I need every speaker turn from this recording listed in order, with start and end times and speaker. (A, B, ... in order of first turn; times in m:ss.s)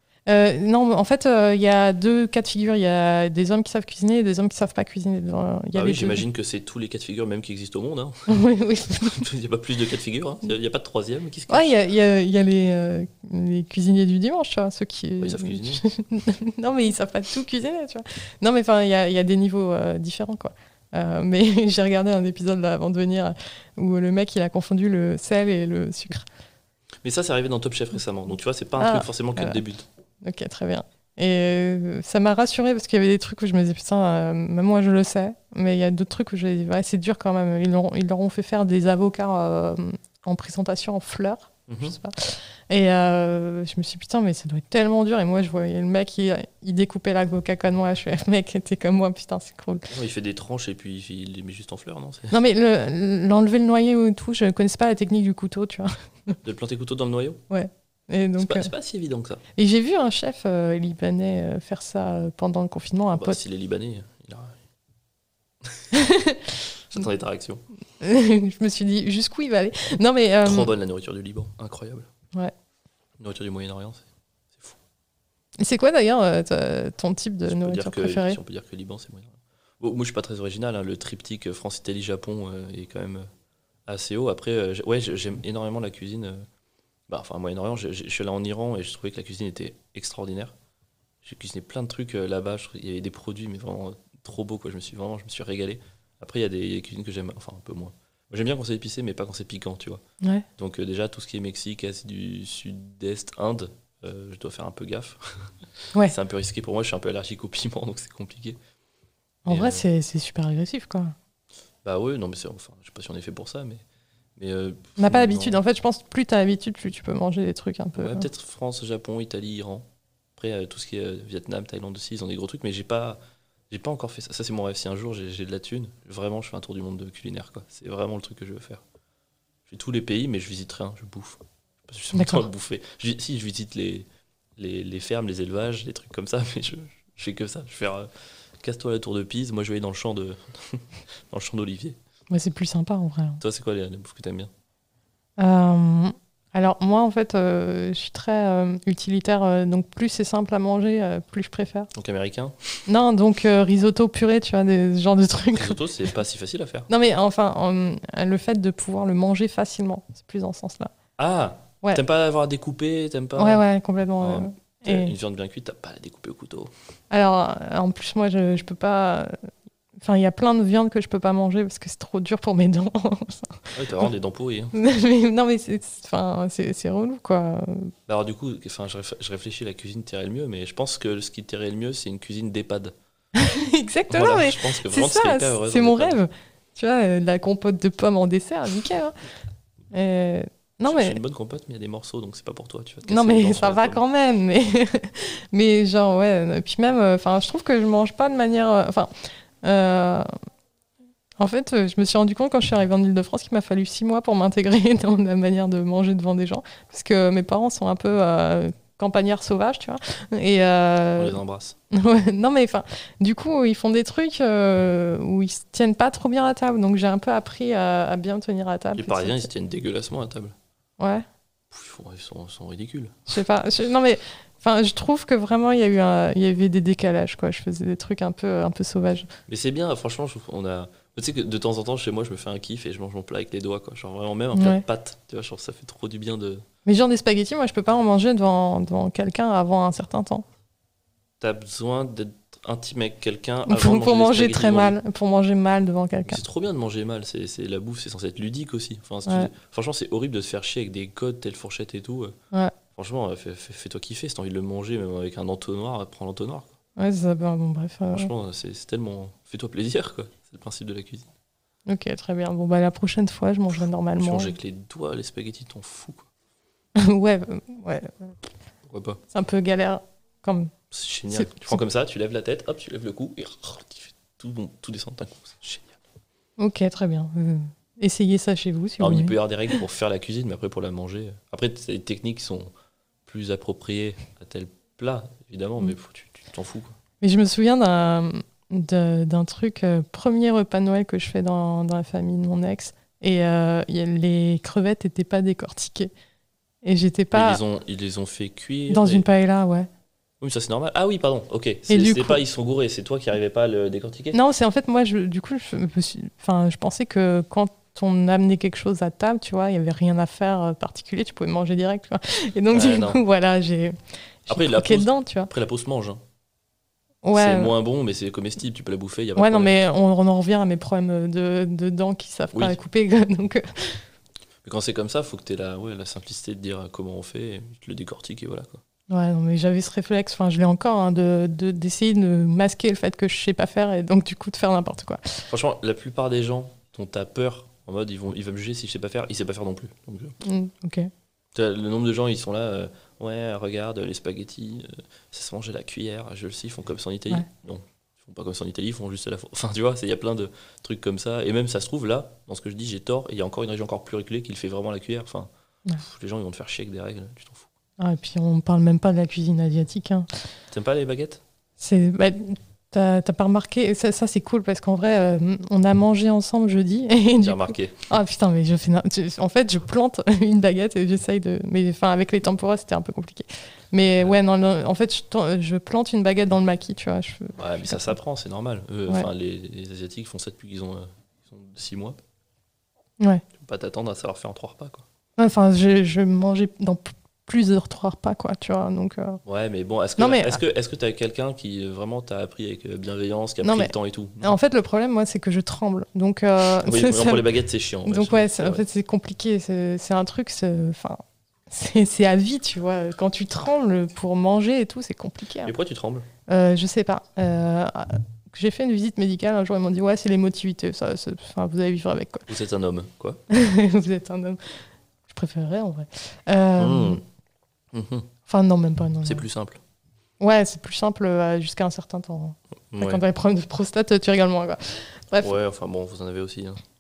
0:00.3-0:06.2 A
0:05.8-0:08.4 B
0:08.3-0:09.2 A
0:09.0-0:11.7 B
0:11.5-0:26.3 A
0:15.2-0:15.8 B
0:27.0-0:29.9 B
0:28.8-0:29.6 A
0:30.2-0:49.9 A
0:41.7-0:42.0 B
0:49.9-0:52.4 B
0:52.3-0:56.4 A
0:56.4-0:57.4 B
0:57.5-0:58.7 A
0:58.4-0:59.4 B
0:59.6-1:03.4 A
1:03.1-1:04.6 B
1:05.9-1:06.6 A
1:06.9-1:07.6 B
1:08.0-1:10.7 A
1:10.4-1:12.1 B
1:13.2-1:14.8 B
1:15.6-1:18.4 A
1:17.5-1:23.3 B
1:23.9-1:26.5 B
1:27.1-1:30.5 B
1:31.2-1:40.0 B
1:40.2-1:40.5 A
1:40.6-1:45.5 B
1:46.0-1:48.6 B
1:49.5-1:51.2 A
1:49.5-1:49.8 B
1:51.8-1:53.8 B
1:54.4-1:55.6 B
1:55.0-1:58.3 A
1:58.0-1:59.8 B
2:00.4-2:03.2 B
2:03.7-2:08.8 B
2:09.7-2:18.1 B
2:12.1-2:12.5 A
2:18.6-2:22.0 B
2:22.3-2:23.4 A
2:23.4-2:24.5 B
2:25.4-2:31.9 A
2:31.9-2:32.8 B
2:32.9-2:35.8 A
2:35.6-2:36.9 B
2:36.9-2:40.9 A
2:41.2-2:43.6 B
2:43.4-2:45.1 A
2:44.2-2:46.7 B
2:47.1-2:49.5 A
2:50.0-2:54.1 A
2:53.7-2:54.8 B
2:54.7-2:57.9 A
2:58.1-3:03.0 B
3:03.4-3:09.2 A
3:04.1-3:06.2 B
3:09.9-3:11.2 A
3:10.8-3:14.0 B
3:13.1-3:20.3 A
3:21.4-3:31.4 A
3:31.2-3:31.8 B
3:31.9-3:39.5 A
3:38.9-3:40.6 B
3:41.0-3:41.3 A
3:41.7-3:43.3 B
3:43.3-3:49.3 A
3:49.5-3:56.7 B
3:54.5-3:54.8 A
3:56.9-4:00.4 A
4:01.4-4:05.0 B
4:03.7-4:06.4 A
4:06.3-4:12.4 B
4:09.3-4:09.5 A
4:13.0-4:16.7 B
4:17.0-4:18.3 A
4:18.1-4:21.3 B
4:21.9-4:24.5 A
4:24.2-4:26.3 B
4:27.0-4:28.4 A
4:28.8-4:29.2 B
4:29.3-4:30.7 A
4:30.9-4:36.0 B
4:31.3-4:31.8 A
4:36.6-4:39.4 A
4:39.0-4:42.7 B
4:43.3-4:47.0 B
4:47.2-4:56.1 A
4:56.8-4:57.6 A
4:57.3-4:59.2 B
4:58.9-4:59.9 A
5:00.4-5:04.4 B
5:01.9-5:02.4 A
5:04.3-5:15.5 A
5:12.7-5:13.2 B
5:14.5-5:16.2 B
5:17.2-5:17.7 A
5:17.3-5:19.8 B
5:19.4-5:24.0 A
5:24.6-5:28.8 B
5:29.1-5:35.5 A
5:35.5-5:40.4 B
5:40.4-5:41.1 A
5:41.5-5:57.7 B
5:58.0-6:00.3 A
6:00.7-6:01.4 B
6:01.8-6:18.2 A
6:07.4-6:08.1 B
6:17.6-6:22.2 B
6:23.2-6:23.4 A
6:23.5-6:25.1 B
6:25.4-6:29.4 A
6:29.4-6:34.6 B
6:30.2-6:30.6 A
6:33.6-6:37.4 A
6:36.8-6:38.8 B
6:38.0-6:45.7 A
6:45.6-6:46.3 B
6:46.5-6:52.5 A
6:52.5-6:53.4 B
6:53.5-6:57.2 A
6:56.8-6:57.2 B
6:57.9-6:58.3 B
6:58.5-6:59.4 A
6:59.2-6:59.8 B
7:00.4-7:05.5 A
7:02.9-7:03.2 B
7:05.4-7:06.8 B